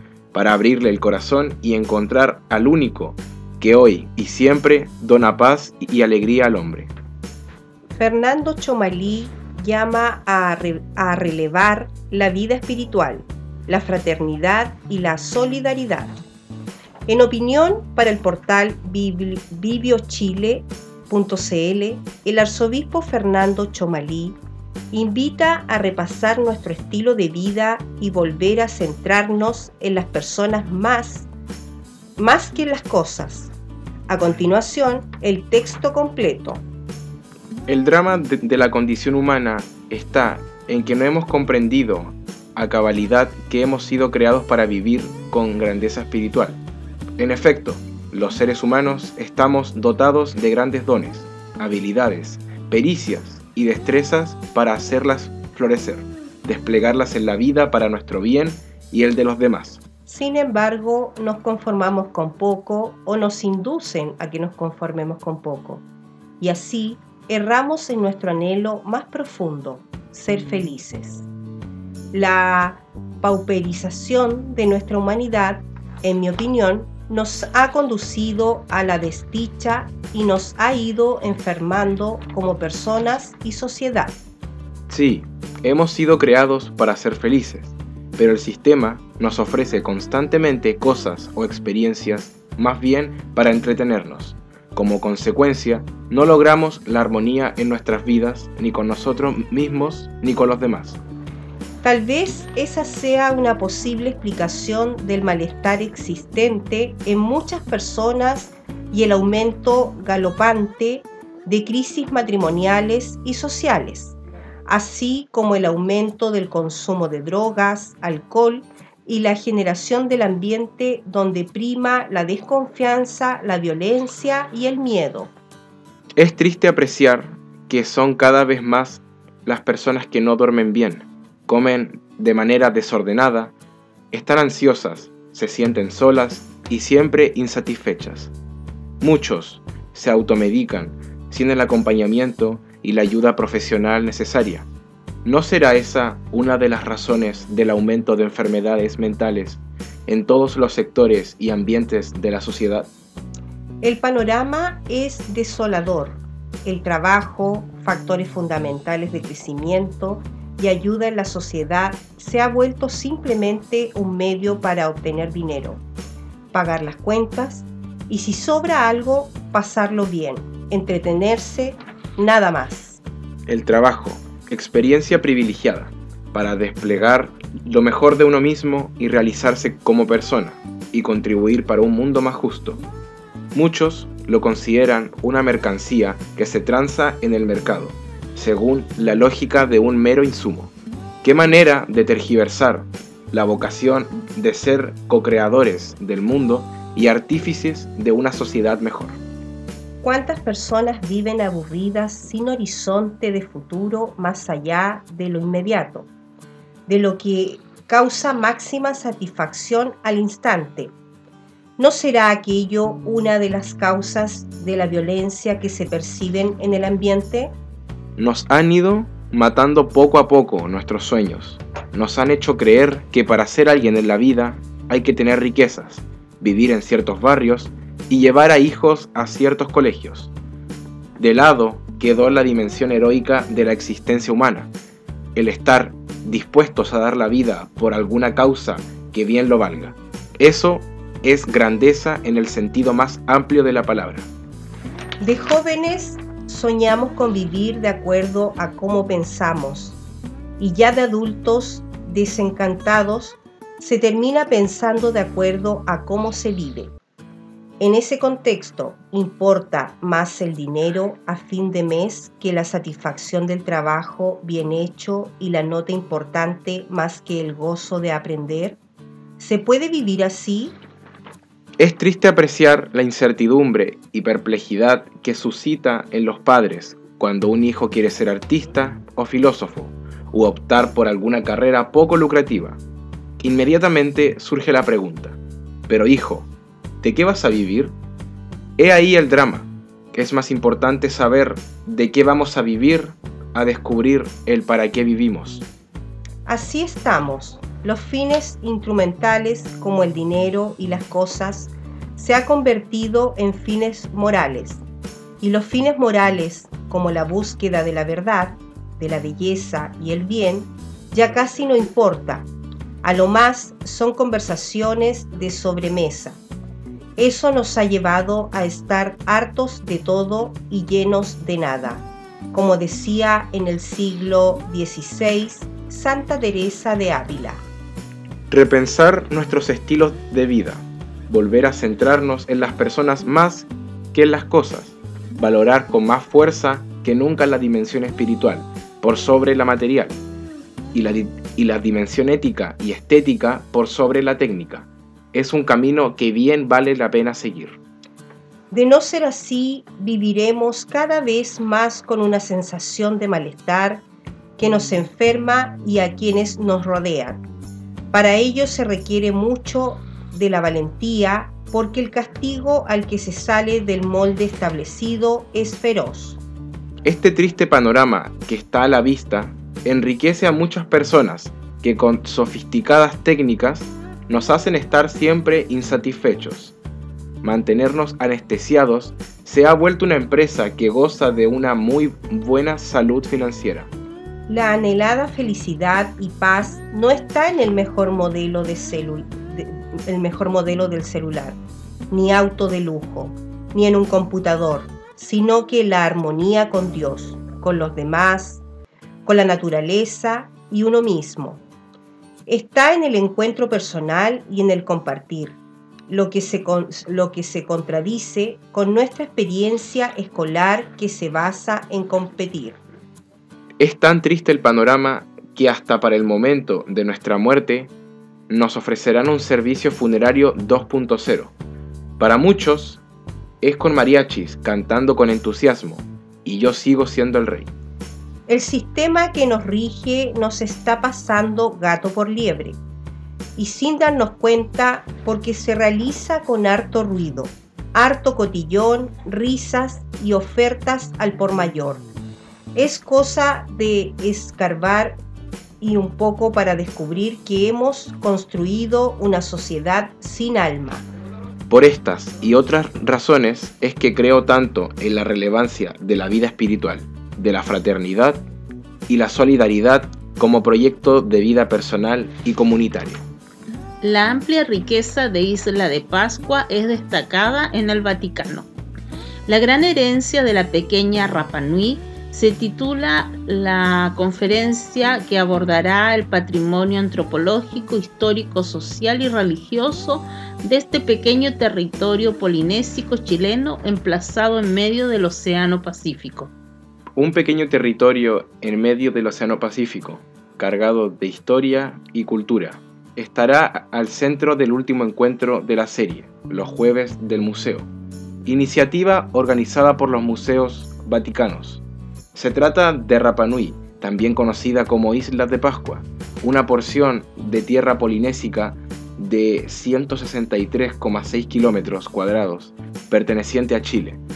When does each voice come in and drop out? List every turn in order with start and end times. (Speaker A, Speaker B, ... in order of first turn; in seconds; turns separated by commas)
Speaker A: 0.3-6.9, Speaker B: 8.0-16.2, Speaker B: 17.1-24.4, Speaker B: 24.9-31.3, Speaker B: 32.2-33.5, Speaker B: 34.1-36.6, Speaker A: 37.7-46.6, Speaker A: 47.2-59.8, Speaker B: 60.1-65.8, Speaker B: 66.4-71.2, Speaker B: 72.1-84.2, Speaker A: 84.9-101.0, Speaker B: 101.8-125.3, Speaker A: 126.2-133.5, Speaker A: 134.1-138.3, Speaker A: 139.0-144.7, Speaker A: 145.2-152.9, Speaker B: 153.8-165.8, Speaker B: 166.5-173.0, Speaker A: 173.5-182.8, Speaker A: 183.5-190.7, Speaker A: 191.2-199.2, Speaker B: 200.0-206.1, Speaker B: 206.9-210.9, Speaker B: 211.8-217.5, Speaker A: 218.2-230.3, Speaker A: 231.2-234.7, Speaker A: 235.3-244.3, Speaker B: 245.2-250.0, Speaker B: 250.6-256.9, Speaker B: 257.8-268.8, Speaker B: 269.4-270.8, Speaker A: 271.8-282.8, Speaker A: 283.4-285.4, Speaker A: 285.9-286.5, Speaker A: 287.0-287.9, Speaker A: 288.8-295.6, Speaker B: 296.4-304.8, Speaker B: 305.4-312.5, Speaker B: 313.0-316.4, Speaker B: 317.2-327.6, Speaker A: 328.5-340.2, Speaker A: 340.9-347.8, Speaker B: 348.7-354.1, Speaker B: 354.6-357.4, Speaker B: 358.1-366.4, Speaker A: 367.0-376.7, Speaker A: 377.4-383.9, Speaker B: 384.5-391.6, Speaker B: 392.1-398.6, Speaker B: 399.2-401.6, Speaker B: 402.5-405.6, Speaker B: 406.1-412.8, Speaker A: 413.8-417.9, Speaker A: 418.5-421.5, Speaker A: 422.2-423.0, Speaker A: 423.6-427.7, Speaker B: 428.5-432.8, Speaker B: 433.6-442.1, Speaker B: 442.8-445.2, Speaker B: 445.8-451.1, Speaker A: 451.7-458.4, Speaker A: 459.1-463.2, Speaker C: 464.0-468.7, Speaker C: 469.5-486.5, Speaker A: 487.2-497.9, Speaker A: 498.4-501.8, Speaker A: 502.4-514.2